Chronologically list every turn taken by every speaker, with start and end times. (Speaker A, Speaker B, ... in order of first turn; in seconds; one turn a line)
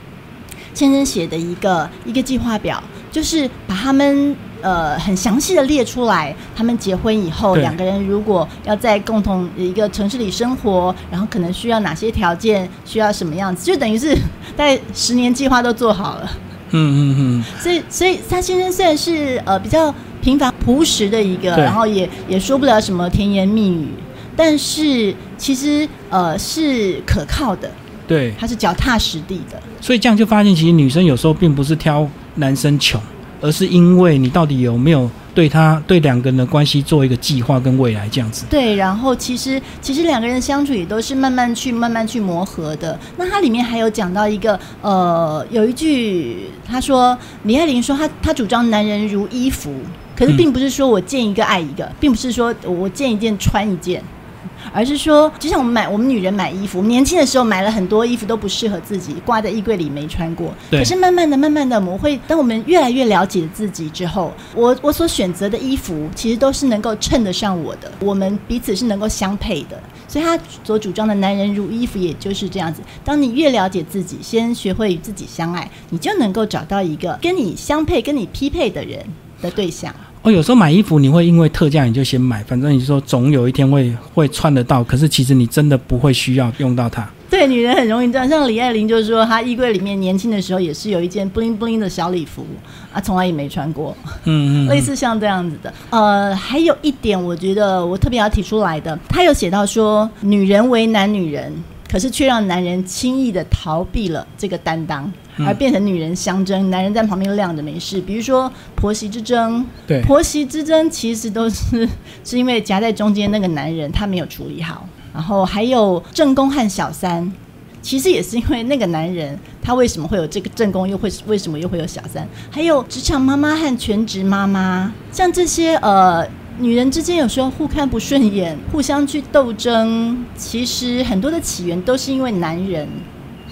Speaker A: 0.7-16.4
Speaker B: 16.7-17.5
Speaker A: 17.5-27.8
Speaker B: 28.1-28.4
Speaker A: 28.4-29.7
Speaker B: 29.8-38.5
Speaker A: 38.5-54.1
Speaker A: 54.7-80.0
Speaker B: 80.2-87.1
Speaker A: 87.3-133.0
Speaker B: 94.3-94.9